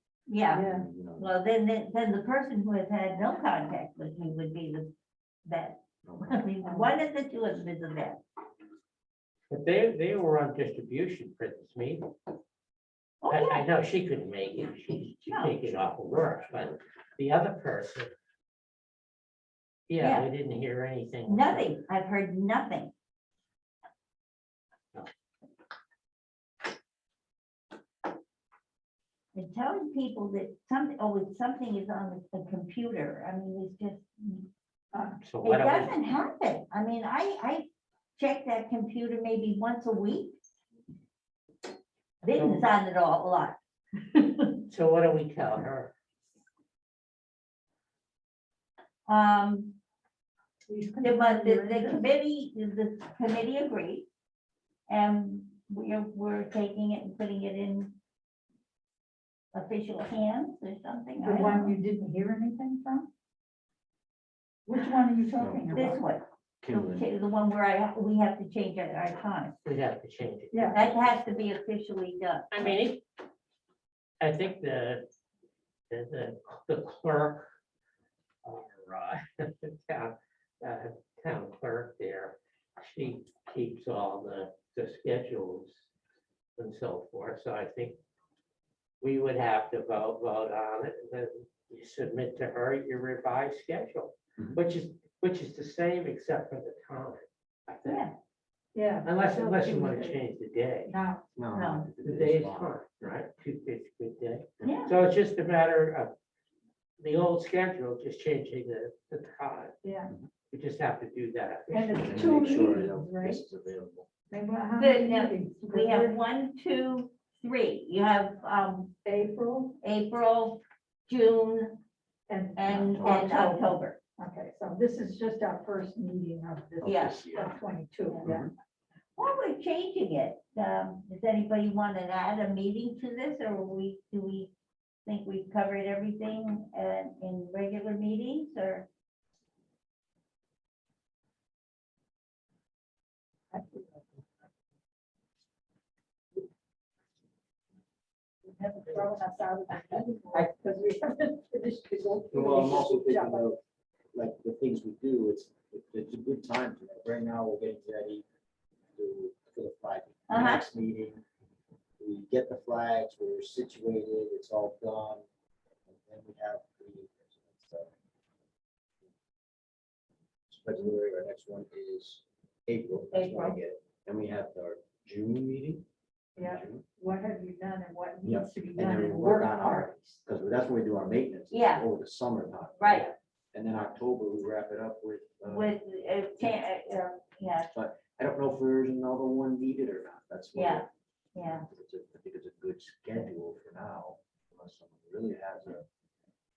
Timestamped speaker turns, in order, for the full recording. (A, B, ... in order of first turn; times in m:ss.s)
0:00.3-0:00.6 A
0:00.5-0:00.8 B
0:00.5-0:01.3 C
0:01.2-0:04.9 A
0:05.4-0:08.2 A
0:06.0-0:06.4 C
0:06.6-0:06.9 B
0:09.5-0:12.1 D
0:13.2-0:13.6 A
0:13.3-0:18.1 D
0:15.2-0:15.5 A
0:19.9-0:21.7 D
0:20.0-0:20.3 A
0:21.2-0:22.9 A
0:29.3-0:34.5 A
0:34.9-0:35.2 B
0:35.2-0:36.0 D
0:35.4-0:40.4 A
0:42.2-0:43.6 A
0:42.4-0:42.6 D
0:44.6-0:45.9 D
0:49.1-0:49.8 A
0:50.7-0:52.1 B
0:51.0-0:54.1 A
0:54.9-0:58.0 A
0:59.5-1:01.7 A
1:01.2-1:03.1 B
1:04.6-1:06.0 B
1:05.4-1:05.7 C
1:05.7-1:09.6 A
1:06.6-1:07.1 C
1:09.6-1:11.1 D
1:10.5-1:10.8 B
1:10.7-1:12.7 A
1:12.5-1:13.0 D
1:14.2-1:15.1 D
1:15.9-1:17.5 D
1:18.4-1:25.8 D
1:26.6-1:28.0 D
1:29.0-1:38.1 D
1:37.8-1:38.1 A
1:38.7-1:40.2 B
1:39.0-1:40.9 D
1:40.8-1:41.2 B
1:41.3-1:42.7 C
1:41.5-1:41.9 A
1:42.0-1:46.1 D
1:44.6-1:44.9 A
1:47.0-1:49.7 D
1:49.8-1:50.1 B
1:50.5-1:52.1 D
1:51.7-1:53.4 B
1:52.0-1:54.1 C
1:54.3-1:56.2 B
1:54.8-1:58.9 A
1:59.0-1:59.8 B
1:59.8-2:01.8 A
2:02.3-2:08.5 B
2:02.6-2:04.0 A
2:02.7-2:03.3 C
2:06.8-2:07.6 C
2:06.8-2:07.2 A
2:08.2-2:08.5 C
2:09.2-2:14.5 A
2:15.0-2:18.9 A
2:23.5-2:24.0 B
2:28.4-2:33.5 B
2:29.8-2:30.9 A
2:32.3-2:33.6 C
2:34.1-2:38.2 C
2:38.9-2:41.2 C
2:40.3-2:40.6 A
2:42.0-2:45.2 C
2:45.9-2:47.9 C
2:50.5-2:55.8 C
2:53.1-2:53.6 A
2:56.4-2:56.8 C
2:56.4-3:00.2 B
2:58.2-3:05.7 C
3:01.5-3:01.8 A
3:02.8-3:03.1 A
3:05.4-3:07.7 A
3:07.7-3:10.8 C
3:10.5-3:11.6 A
3:11.4-3:15.8 C